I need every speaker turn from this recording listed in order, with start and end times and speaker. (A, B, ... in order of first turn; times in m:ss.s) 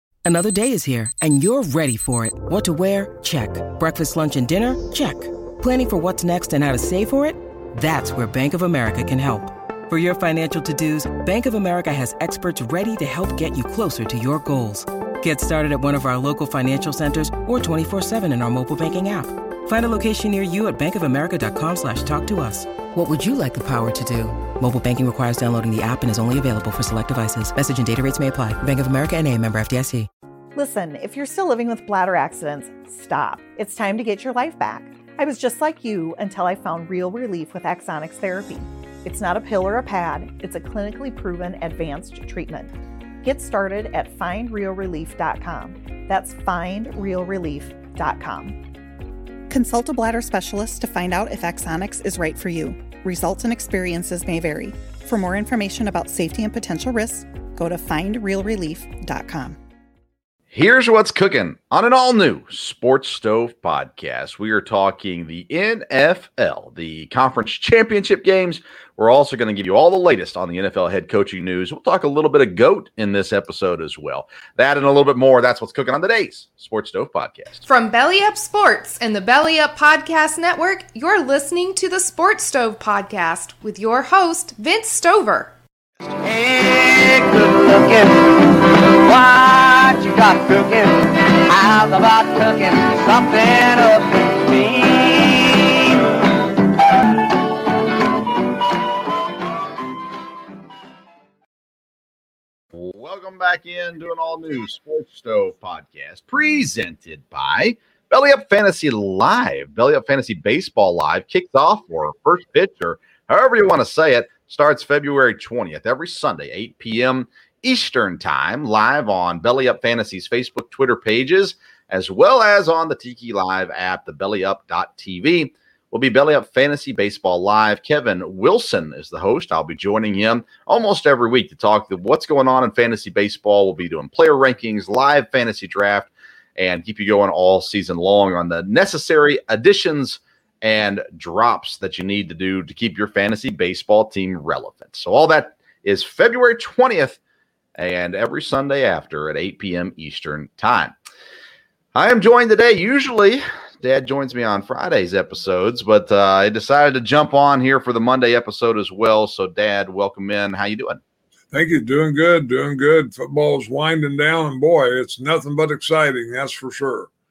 0:00.2-0:30.1 A
0:30.6-0:48.6 B
0:49.5-0:59.6 C
1:00.5-1:17.6 D
1:17.6-1:25.5 E
1:26.2-1:36.1 F
1:42.7-2:27.2 D
2:27.8-2:30.9 D
2:31.9-2:41.0 D
2:41.5-2:47.1 G